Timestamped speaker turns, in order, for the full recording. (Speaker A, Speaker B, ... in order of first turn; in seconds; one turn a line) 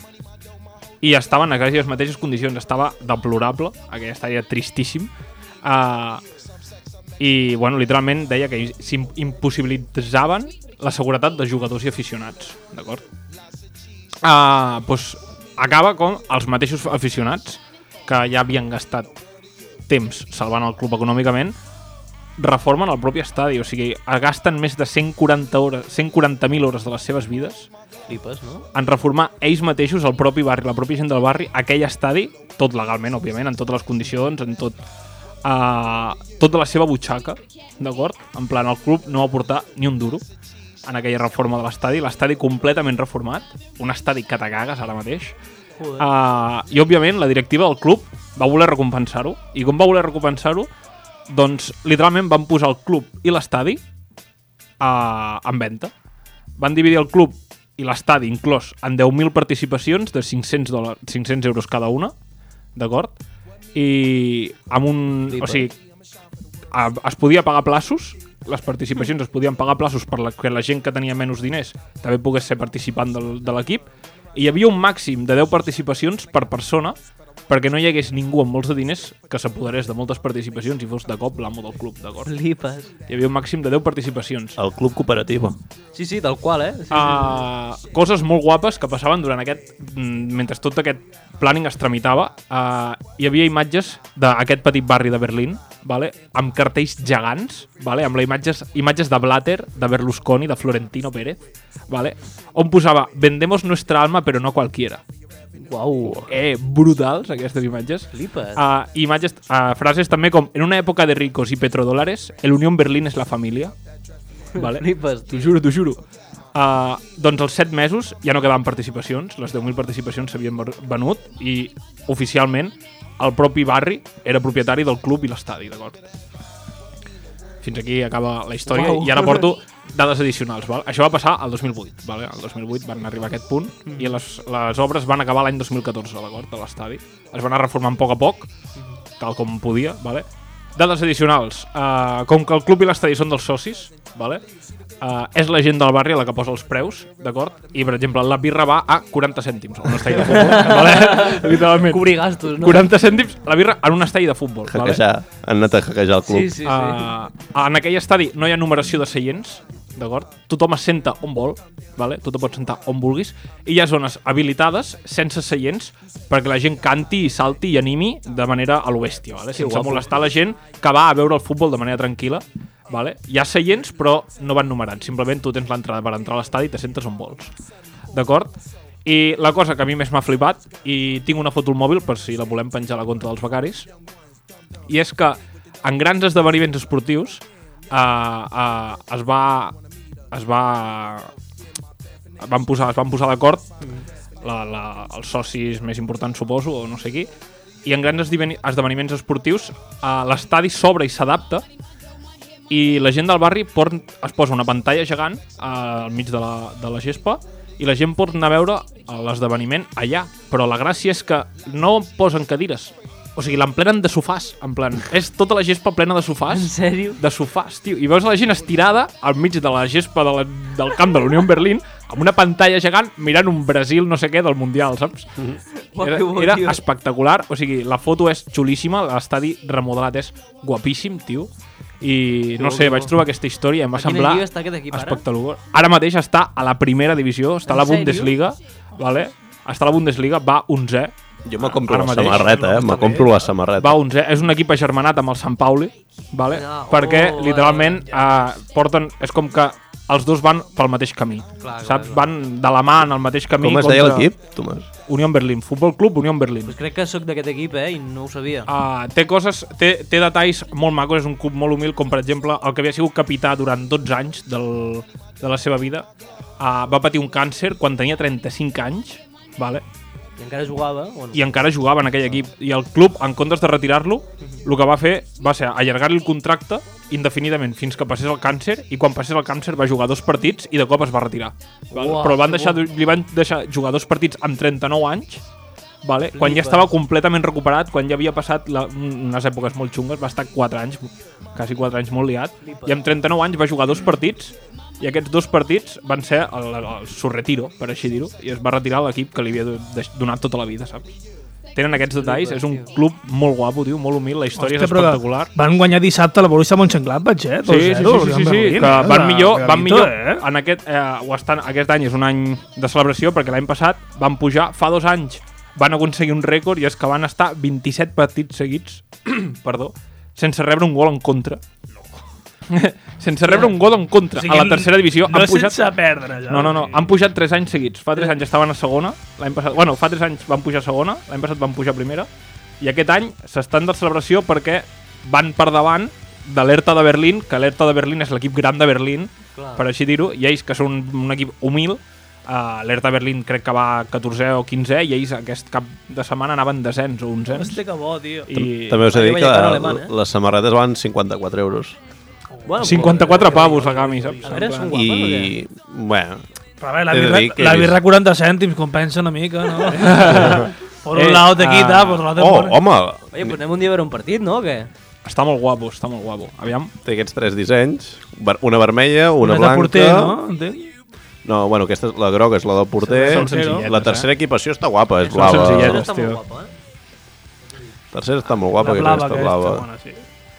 Speaker A: 1.0-5.1
Speaker A: 5.6-6.2
Speaker A: 7.2-13.0
Speaker A: 14.2-19.2
Speaker A: 19.9-21.5
Speaker A: 22.4-27.7
Speaker B: 28.1-28.6
Speaker A: 28.7-34.8
Speaker A: 35.4-40.2
Speaker A: 40.9-45.3
Speaker B: 45.8-46.1
Speaker A: 46.0-50.7
Speaker A: 51.3-53.8
Speaker A: 54.8-55.9
Speaker A: 56.6-62.1
Speaker A: 62.8-63.1
Speaker A: 63.7-65.7
Speaker B: 65.3-65.7
Speaker A: 66.7-77.0
Speaker A: 77.5-82.3
Speaker B: 82.2-82.9
Speaker A: 83.1-84.6
Speaker C: 84.6-85.6
Speaker B: 85.9-87.4
Speaker A: 86.9-105.0
Speaker B: 105.6-106.3
Speaker A: 106.3-113.7
Speaker B: 108.1-108.6
Speaker B: 114.5-115.5
Speaker A: 114.5-116.0
Speaker A: 116.5-126.1
Speaker A: 127.6-138.5
Speaker B: 128.7-129.3
Speaker B: 133.9-134.2
Speaker A: 139.2-144.4
Speaker A: 145.0-155.0
Speaker B: 150.1-152.9
Speaker C: 154.7-156.5
Speaker B: 156.2-157.1
Speaker A: 156.6-177.5
Speaker B: 169.6-170.1
Speaker A: 178.1-178.5
Speaker A: 179.0-183.9
Speaker A: 184.9-189.7
Speaker A: 190.3-191.3
Speaker A: 192.4-193.7
Speaker A: 194.4-197.3
Speaker A: 197.8-201.6
Speaker A: 202.7-225.3
Speaker B: 216.5-217.2
Speaker B: 225.8-226.8
Speaker A: 226.0-231.5
Speaker A: 232.0-241.1
Speaker B: 232.6-233.1
Speaker B: 233.9-235.2
Speaker B: 237.7-238.3
Speaker C: 241.4-244.0
Speaker A: 241.8-242.8
Speaker D: 242.3-243.2
Speaker A: 243.8-254.3
Speaker B: 246.5-248.3
Speaker B: 251.6-252.2
Speaker C: 253.6-254.8
Speaker A: 255.1-256.7
Speaker B: 256.6-258.7
Speaker A: 258.7-266.1
Speaker A: 266.6-269.8
Speaker B: 270.4-271.5
Speaker A: 271.3-285.4
Speaker B: 281.9-282.8
Speaker A: 286.0-301.1
Speaker B: 286.3-286.9
Speaker B: 292.6-293.1
Speaker A: 301.7-305.5
Speaker B: 302.2-302.9
Speaker D: 304.6-310.4
Speaker A: 307.6-321.6
Speaker A: 322.7-325.8
Speaker D: 324.3-327.1
Speaker A: 326.5-332.3
Speaker A: 332.8-347.8
Speaker B: 339.5-339.8
Speaker D: 347.5-348.5
Speaker A: 348.5-349.1
Speaker C: 348.5-352.0
Speaker B: 349.1-350.1
Speaker D: 352.6-354.9
Speaker B: 352.7-355.5
Speaker A: 352.8-354.9
Speaker C: 354.9-356.4
Speaker D: 356.8-362.8
Speaker C: 357.1-358.0
Speaker A: 359.9-362.3
Speaker C: 362.3-363.6
Speaker B: 363.3-364.9
Speaker A: 365.2-366.9
Speaker C: 367.0-370.4
Speaker D: 369.4-370.9
Speaker C: 371.4-376.0
Speaker D: 373.0-373.9
Speaker A: 373.2-374.3
Speaker B: 375.2-376.7
Speaker A: 375.3-376.4
Speaker C: 378.1-379.8
Speaker D: 378.8-380.2